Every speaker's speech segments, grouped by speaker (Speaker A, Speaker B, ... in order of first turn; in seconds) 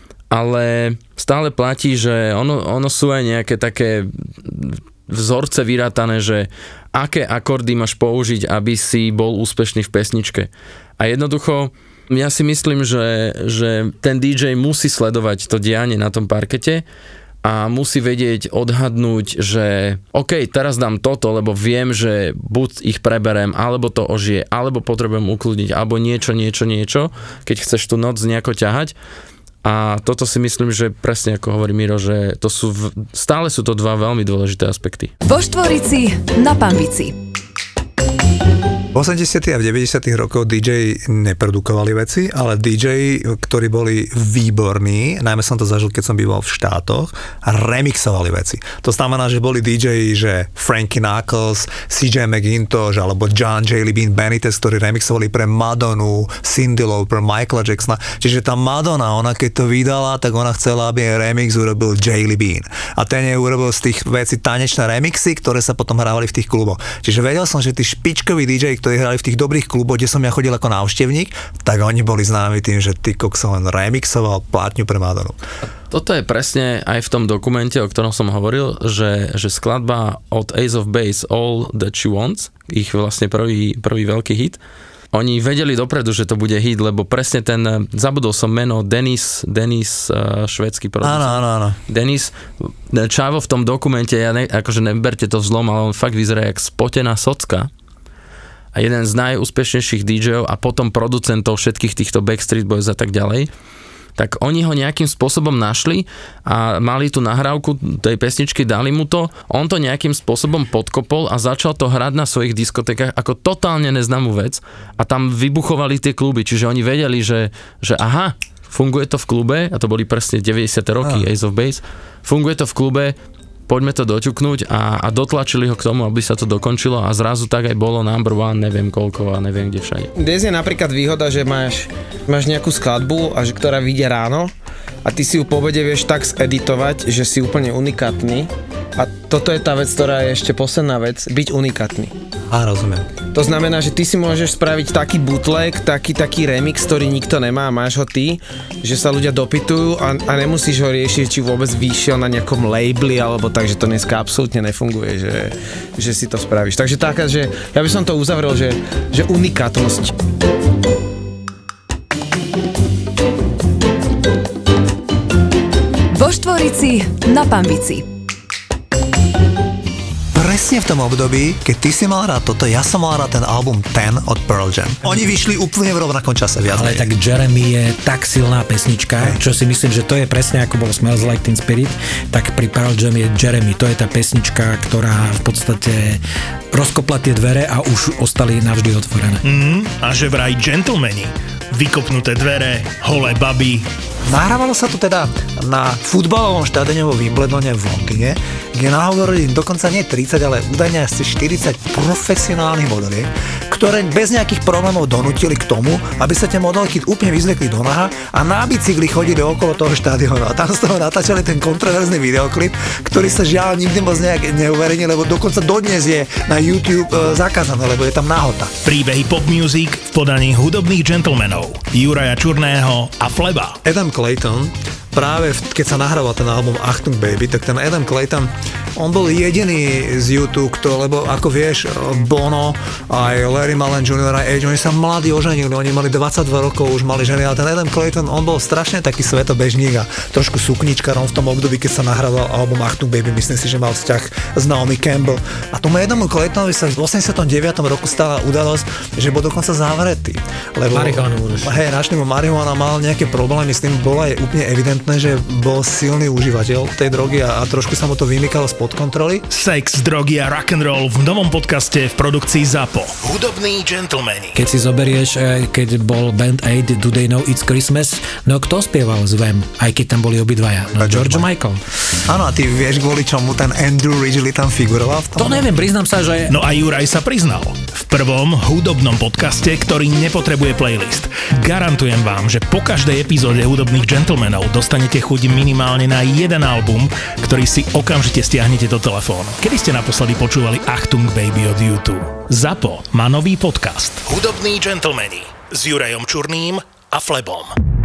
Speaker A: 0.3-16.8, 17.4-28.9, 29.6-35.1, 75.9-84.6, 85.1-97.7, 98.7-103.5, 104.2-123.1, 123.7-130.1
Speaker B: 35.2-37.1, 166.1-168.1
Speaker C: 38.9-75.4, 91.0-91.8, 142.5-143.1, 170.3-177.1, 194.2-218.7, 223.8-259.4, 271.0-271.5, 272.2-275.7
Speaker D: 130.2-134.5, 135.0-142.1, 143.3-160.1
Speaker E: 176.7-186.2, 186.7-189.4, 250.9-251.8, 264.5-271.8, 275.4-276.6
Speaker F: 189.4-193.9, 218.8-223.8, 259.5-264.6, 276.5-297.7